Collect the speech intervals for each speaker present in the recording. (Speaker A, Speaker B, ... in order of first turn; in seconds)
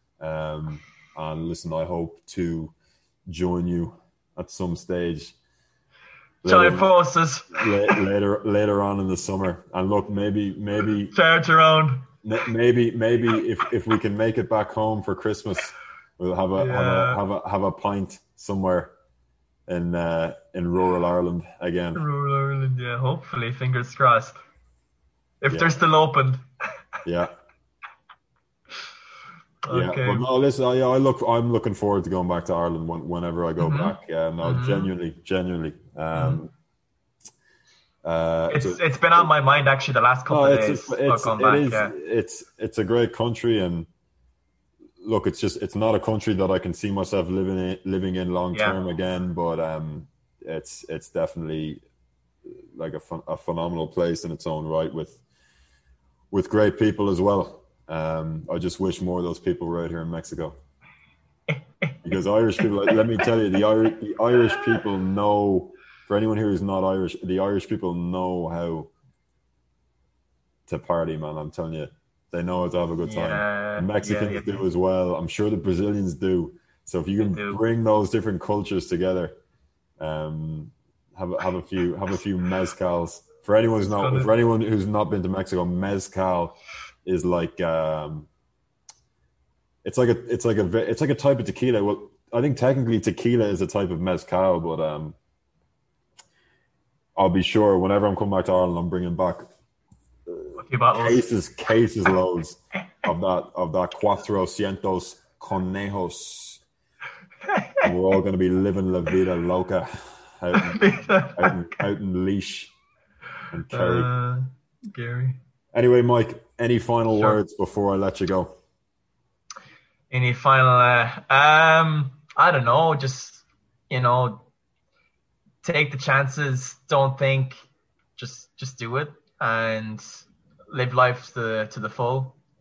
Speaker A: 0.2-2.7, 3.3-5.3, 6.4-6.9, 7.5-11.2, 12.2-18.9, 19.7-22.0, 25.5-25.7, 27.0-27.3, 29.7-36.5, 38.0-39.3, 40.3-43.9, 45.0-51.8, 52.7-55.2, 56.3-60.6, 62.0-68.9, 70.7-79.3, 80.0-88.3, 89.8-95.2, 97.2-99.5, 100.3-106.6, 107.8-112.7, 113.5-114.1, 115.7-118.5
Speaker B: 6.4-8.0, 11.1-12.1, 16.6-17.2, 21.9-24.4, 25.4-26.4, 29.6-30.2, 33.6-34.9, 36.1-36.4, 38.5-41.9, 48.5-48.8, 61.5-61.9, 64.5-64.8, 73.0-74.6, 77.2-77.6, 83.9-84.3, 100.6-101.2, 107.4-107.8, 110.6-111.8, 113.7-115.4, 117.1-117.4, 120.1-124.5, 125.6-127.6, 128.2-132.4